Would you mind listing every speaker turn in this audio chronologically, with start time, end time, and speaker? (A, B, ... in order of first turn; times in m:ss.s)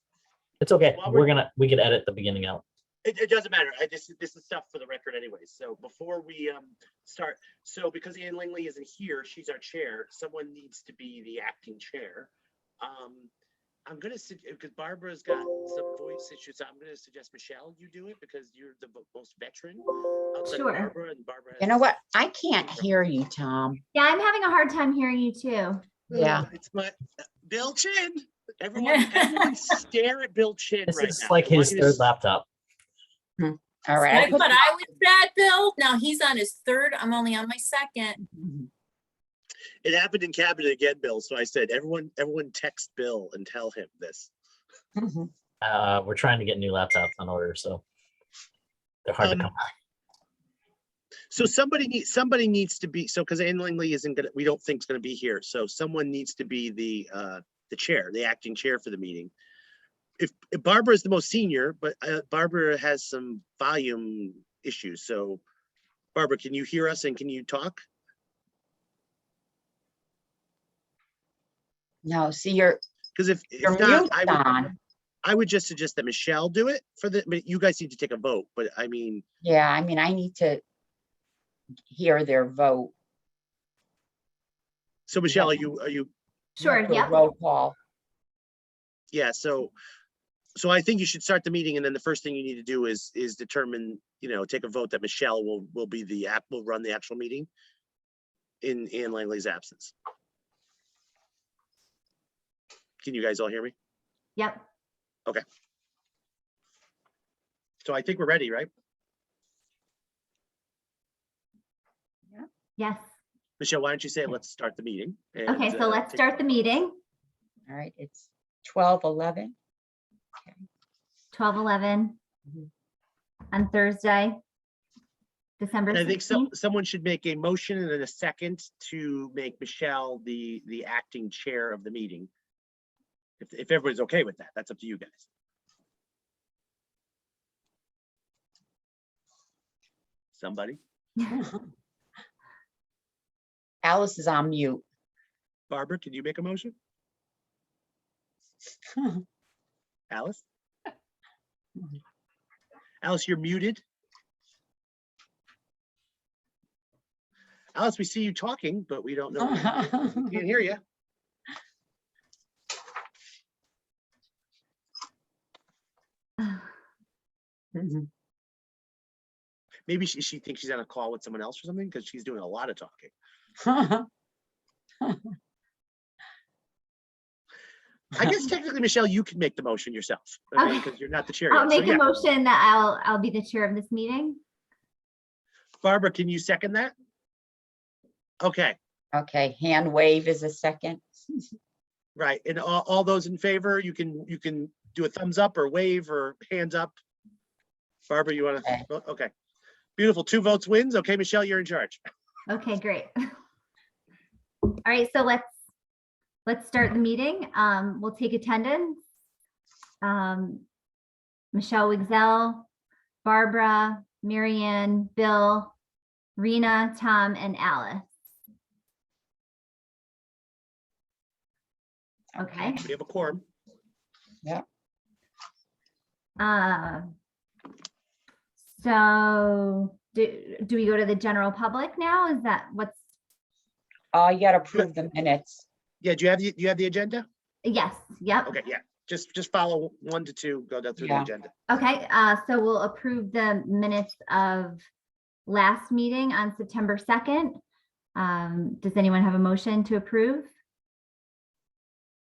0:00.6-0:02.6 A
0:00.9-0:01.3 B
0:03.0-0:12.3 B
0:12.8-0:13.3 B
0:13.9-0:21.9 B
0:20.4-0:20.9 C
0:21.6-0:23.8 D
0:23.9-0:25.9 C
0:26.1-0:26.5 D
0:26.2-0:32.1 B
0:28.8-0:29.5 E
0:30.9-0:32.5 A
0:33.4-0:34.7 D
0:34.0-0:38.2 E
0:38.3-0:38.7 D
0:39.8-0:44.3 B
0:45.0-0:45.3 D
0:45.6-0:47.8 A
0:49.0-0:49.7 A
0:49.2-0:49.5 B
0:51.3-0:59.3 B
1:00.2-1:05.4 B
1:06.1-1:07.8 B
1:12.0-1:12.8 D
1:13.2-1:14.7 B
1:13.6-1:14.7 D
1:15.2-1:19.2 B
1:19.4-1:20.6 D
1:21.9-1:22.9 D
1:25.1-1:26.1 B
1:25.3-1:25.7 D
1:26.6-1:27.2 C
1:26.6-1:27.8 D
1:29.1-1:29.7 B
1:30.6-1:37.5 B
1:38.6-1:39.9 B
1:43.0-1:43.7 B
1:44.4-1:44.6 C
1:47.8-1:48.7 B
1:52.8-1:53.1 C
1:53.6-1:56.6 B
1:55.5-1:57.0 C
1:57.7-1:59.5 D
2:01.3-2:02.2 C
2:03.5-2:04.4 C
2:05.6-2:06.5 C
2:05.9-2:12.3 B
2:13.4-2:15.3 B
2:20.4-2:20.8 B
2:21.3-2:21.6 D
2:23.8-2:24.8 D
2:25.7-2:26.8 B
2:28.9-2:29.2 D
2:30.1-2:30.4 B
2:33.0-2:33.8 B
2:37.8-2:40.8 B
2:39.4-2:40.4 D
2:46.4-2:46.7 C
2:47.8-2:48.1 D
2:49.9-2:53.1 B
2:53.6-2:54.1 D
2:58.2-3:02.0 B
3:00.6-3:00.9 C
3:01.5-3:04.4 C
3:05.8-3:06.9 B
3:08.4-3:08.8 B
3:09.1-3:11.2 D
3:12.2-3:17.0 B
3:18.1-3:19.3 B
3:20.0-3:22.0 B
3:22.5-3:23.1 C
3:24.7-3:25.5 C
3:26.5-3:29.0 C
3:30.0-3:30.7 C
3:31.5-3:32.7 C
3:33.2-3:35.7 C
3:36.4-3:38.1 C
3:42.4-3:42.8 C
3:42.4-3:42.8 D
3:42.8-3:43.4 B
3:46.4-3:47.1 C
3:48.7-3:53.0 C
3:54.1-3:55.6 D
3:56.0-3:57.3 B
3:57.6-3:58.5 C
3:58.5-4:01.5 B
4:01.0-4:01.3 D
4:01.7-4:04.8 C
4:05.5-4:07.6 C
4:08.2-4:10.5 C